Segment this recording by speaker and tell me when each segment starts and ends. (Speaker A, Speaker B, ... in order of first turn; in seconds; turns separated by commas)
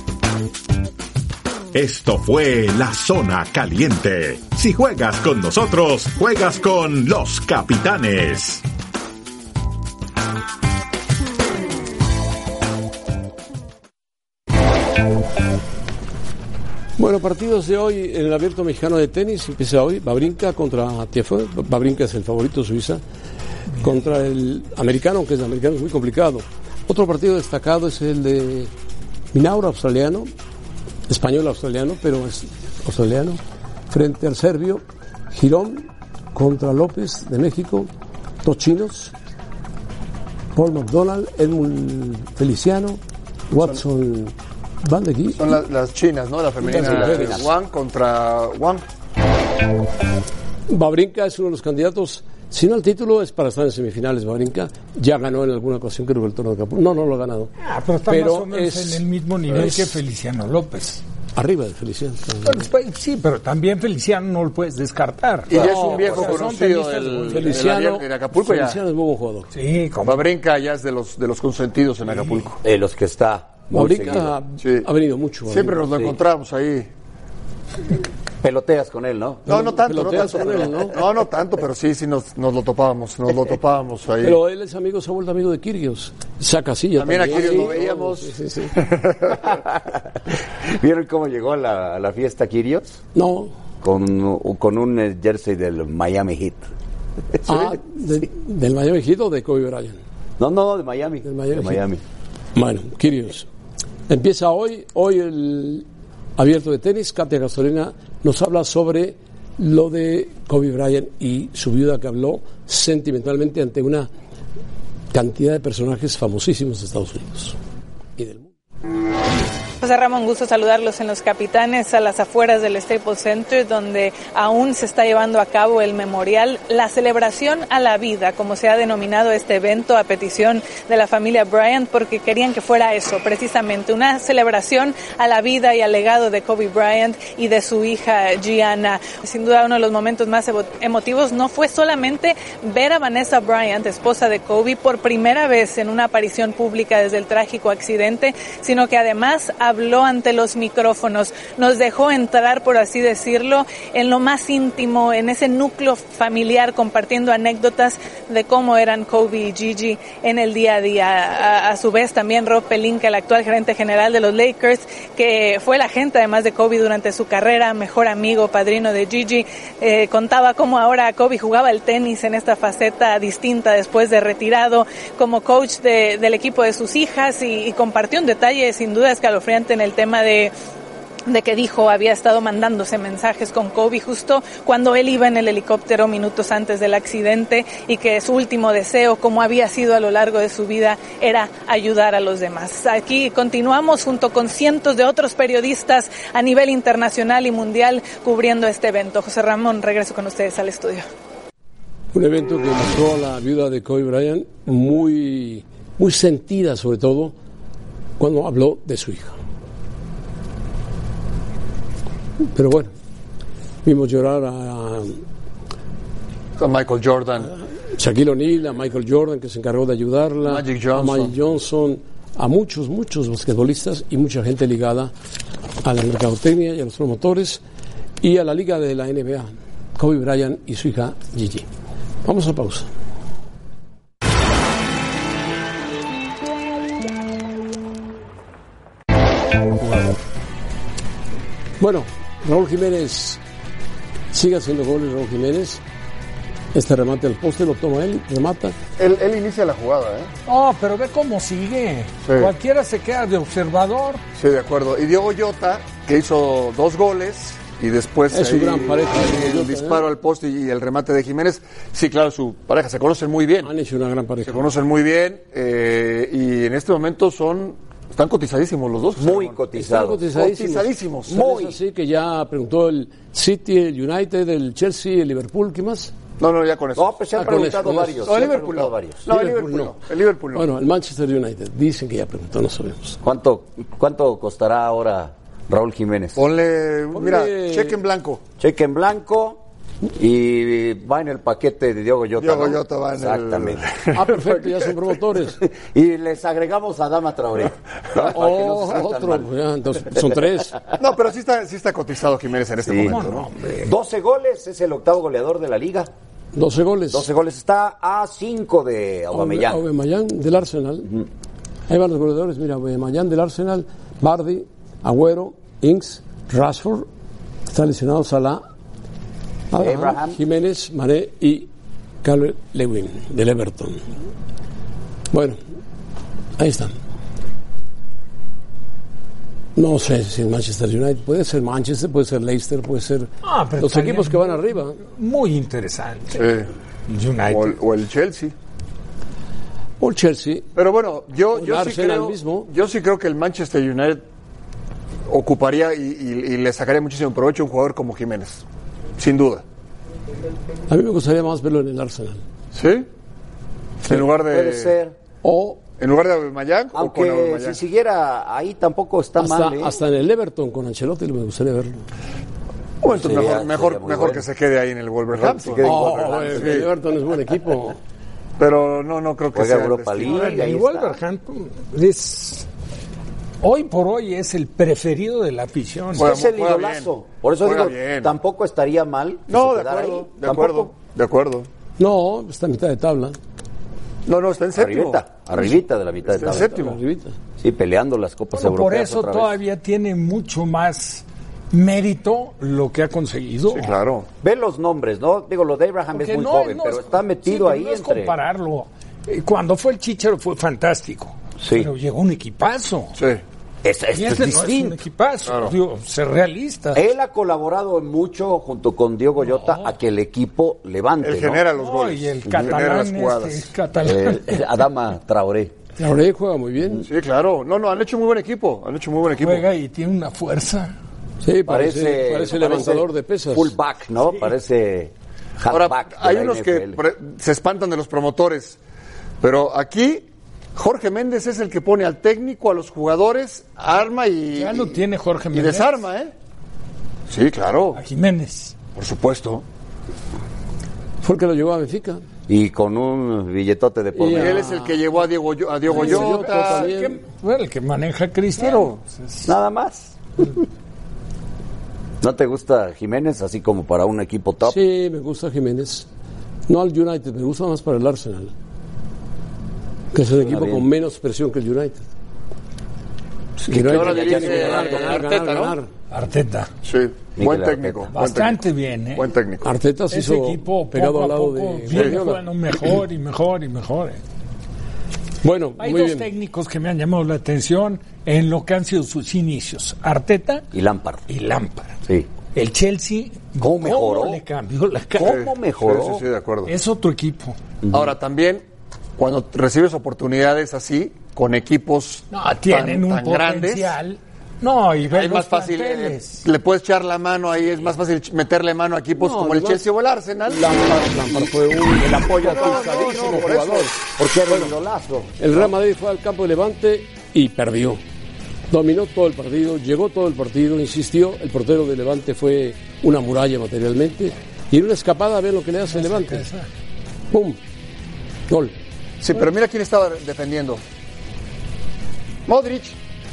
Speaker A: 1.7-8.6, Speaker B: 17.0-23.0, Speaker B: 23.8-28.7, Speaker B: 29.3-30.3, Speaker B: 31.1-37.9, Speaker B: 38.4-39.1, Speaker B: 40.5-45.5, Speaker C: 45.3-48.8, Speaker B: 46.6-47.5, Speaker D: 46.7-47.4, Speaker B: 50.7-57.5, Speaker E: 57.6-61.0, Speaker B: 58.1-59.9, Speaker B: 61.3-62.6, Speaker E: 62.4-67.7, Speaker C: 65.5-68.8, Speaker D: 65.5-66.0, Speaker B: 67.3-69.5, Speaker E: 69.5-70.3, Speaker C: 70.0-72.6, Speaker D: 72.6-74.3, Speaker B: 73.7-75.9, Speaker C: 74.6-74.9, Speaker C: 75.5-76.9, Speaker D: 78.4-80.6, Speaker C: 79.5-84.4, Speaker B: 79.5-81.0, Speaker B: 84.2-88.8, Speaker C: 87.0-89.2, Speaker D: 89.3-90.0, Speaker D: 90.6-93.0, Speaker B: 93.1-93.5, Speaker D: 93.8-96.7, Speaker B: 97.5-100.0, Speaker D: 100.4-102.0, Speaker B: 101.2-101.8, Speaker B: 102.5-103.5, Speaker B: 104.1-105.8, Speaker B: 106.4-114.1, Speaker B: 115.1-117.5, Speaker B: 118.2-118.5, Speaker F: 119.8-180.5, Speaker F: 181.3-201.0, Speaker B: 202.1-207.3, Speaker B: 208.2-209.3, Speaker B: 212.5-212.9, Speaker B: 213.8-215.2, Speaker C: 216.6-217.5, Speaker B: 217.9-225.1, Speaker C: 220.4-221.3, Speaker B: 225.8-227.6, Speaker B: 228.2-231.7, Speaker B: 232.2-232.9, Speaker B: 241.8-243.4, Speaker B: 244.3-245.8, Speaker B: 246.7-248.8, Speaker C: 249.0-250.3, Speaker E: 250.4-254.2, Speaker C: 252.2-252.5, Speaker C: 254.3-263.7, Speaker B: 258.3-260.0, Speaker B: 263.6-264.7, Speaker C: 264.4-269.6, Speaker D: 269.2-270.2, Speaker B: 269.7-276.1, Speaker C: 270.3-271.5, Speaker D: 271.3-271.8, Speaker C: 276.4-277.1, Speaker D: 276.9-279.3, Speaker B: 277.3-278.5, Speaker C: 278.2-280.7, Speaker B: 279.3-280.0, Speaker B: 280.5-283.2, Speaker D: 283.2-286.4, Speaker C: 286.4-288.4, Speaker B: 287.1-288.0, Speaker D: 288.6-289.6, Speaker D: 290.1-293.9, Speaker C: 292.4-294.7, Speaker B: 294.1-295.6, Speaker D: 295.6-299.5, Speaker B: 298.2-300.8, Speaker C: 301.0-303.5, Speaker D: 302.9-303.2, Speaker E: 303.0-303.9, Speaker D: 303.8-306.1, Speaker B: 306.5-307.2, Speaker D: 307.1-309.8, Speaker B: 309.3-311.1, Speaker B: 311.9-317.1, Speaker B: 317.7-318.6, Speaker B: 319.7-321.7, Speaker D: 319.8-320.4, Speaker B: 322.2-324.0, Speaker B: 325.3-325.6, Speaker B: 326.6-326.9, Speaker B: 329.8-335.0, Speaker E: 333.4-336.5, Speaker C: 336.4-336.7, Speaker E: 337.1-337.8, Speaker C: 337.5-338.5, Speaker B: 340.0-340.7, Speaker C: 340.7-344.2, Speaker B: 341.5-342.7, Speaker C: 345.3-348.6, Speaker C: 349.2-349.6, Speaker B: 350.9-352.4, Speaker C: 352.7-353.1, Speaker C: 354.0-354.9, Speaker D: 354.1-355.1, Speaker B: 355.4-355.8, Speaker C: 356.0-357.8, Speaker D: 356.9-359.9, Speaker B: 359.4-362.0, Speaker C: 363.0-365.9, Speaker D: 363.1-364.4, Speaker D: 365.3-366.8, Speaker B: 365.8-368.0, Speaker C: 366.5-366.9, Speaker C: 368.6-370.5, Speaker D: 369.5-371.2, Speaker E: 370.2-372.6, Speaker E: 373.6-376.3, Speaker C: 376.1-378.3, Speaker D: 376.1-380.9, Speaker C: 379.5-381.7, Speaker B: 382.0-383.4, Speaker C: 384.2-385.7, Speaker D: 384.7-386.7, Speaker C: 386.3-387.0, Speaker B: 386.4-387.3, Speaker D: 387.6-389.6, Speaker E: 388.5-393.9, Speaker C: 393.7-394.3, Speaker D: 394.4-398.3, Speaker E: 396.1-403.1, Speaker D: 401.6-401.9, Speaker C: 403.2-403.4, Speaker D: 403.8-405.0, Speaker E: 404.1-407.0, Speaker C: 405.4-405.7, Speaker D: 406.9-411.6, Speaker E: 409.4-409.9, Speaker C: 411.2-413.7, Speaker E: 411.7-414.6, Speaker D: 414.0-415.7, Speaker B: 416.0-417.1, Speaker C: 417.1-419.6, Speaker E: 419.4-420.9, Speaker B: 421.4-423.7, Speaker D: 421.6-427.0, Speaker C: 425.7-428.8, Speaker C: 429.4-435.0, Speaker E: 434.5-436.0, Speaker C: 435.5-436.3, Speaker C: 437.3-438.0, Speaker E: 437.9-438.8, Speaker C: 438.9-439.6, Speaker B: 441.2-442.2, Speaker D: 442.5-444.7, Speaker B: 444.1-444.9, Speaker C: 444.3-446.9, Speaker B: 445.9-447.2, Speaker E: 445.9-449.5, Speaker C: 448.6-449.0, Speaker D: 449.4-450.4, Speaker D: 452.2-454.8, Speaker B: 454.6-456.1, Speaker B: 456.7-458.5, Speaker B: 460.1-462.1, Speaker D: 460.4-460.9, Speaker B: 463.6-465.9, Speaker D: 463.7-465.3, Speaker C: 463.7-465.8, Speaker E: 466.1-466.7, Speaker C: 466.8-468.6, Speaker D: 467.4-468.1, Speaker E: 468.1-469.3, Speaker C: 469.1-469.7, Speaker B: 469.6-472.4, Speaker E: 470.1-474.2, Speaker C: 471.9-472.2, Speaker B: 475.4-476.3, Speaker E: 475.8-480.7, Speaker D: 480.7-481.2, Speaker E: 481.3-482.0, Speaker E: 482.5-485.4, Speaker D: 483.6-484.4, Speaker D: 485.1-486.2, Speaker C: 485.2-486.7, Speaker E: 486.6-487.6, Speaker C: 487.9-488.6, Speaker C: 489.2-493.9, Speaker E: 492.3-496.4, Speaker C: 495.1-500.7, Speaker B: 499.2-499.8, Speaker B: 500.5-504.7, Speaker C: 501.4-504.0, Speaker D: 502.0-503.6, Speaker D: 504.1-505.6, Speaker B: 505.4-508.0, Speaker B: 508.7-516.5, Speaker E: 515.9-516.7, Speaker B: 517.3-517.6, Speaker B: 518.5-518.7, Speaker C: 519.2-520.8, Speaker C: 522.5-523.0